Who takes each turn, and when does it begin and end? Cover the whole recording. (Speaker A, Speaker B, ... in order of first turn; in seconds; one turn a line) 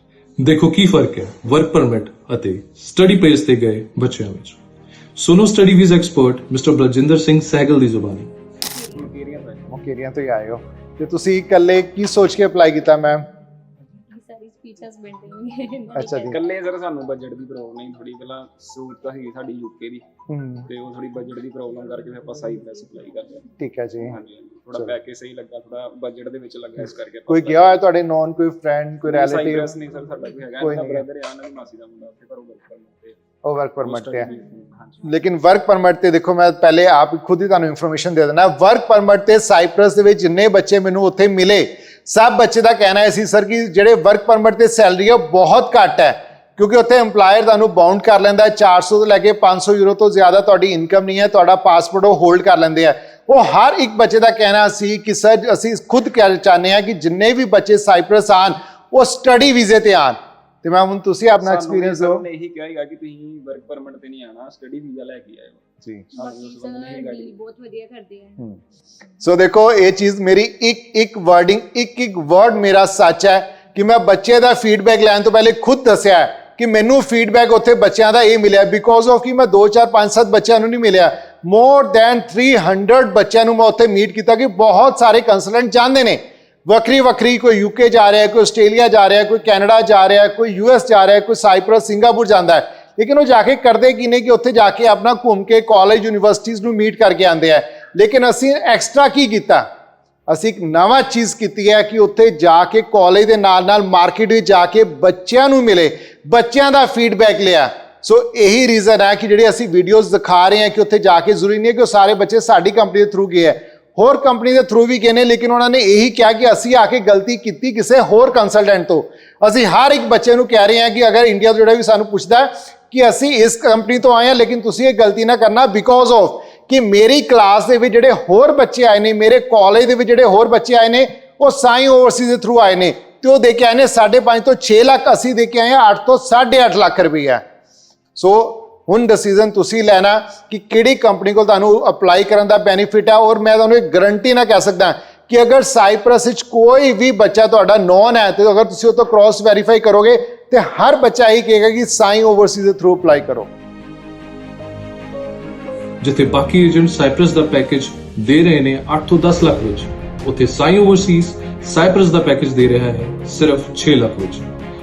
Speaker A: 0.4-4.6
Speaker A: 5.2-8.3
Speaker B: 8.6-9.1
Speaker C: 8.9-9.6
Speaker D: 9.7-13.2
Speaker B: 14.1-16.4
Speaker D: 15.9-16.4
Speaker C: 16.2-20.0
Speaker D: 20.3-20.7
Speaker C: 20.6-23.4
Speaker D: 23.6-24.1
Speaker C: 24.0-27.8
Speaker D: 27.3-29.7
Speaker C: 29.0-33.2
Speaker D: 30.6-31.0
Speaker D: 33.4-34.3
Speaker C: 33.8-35.2
Speaker D: 35.0-62.2
Speaker C: 61.4-67.4
Speaker B: 66.2-68.5
Speaker D: 69.2-99.7
Speaker D: 100.3-137.4
Speaker D: 138.2-153.5
Speaker A: 156.0-164.5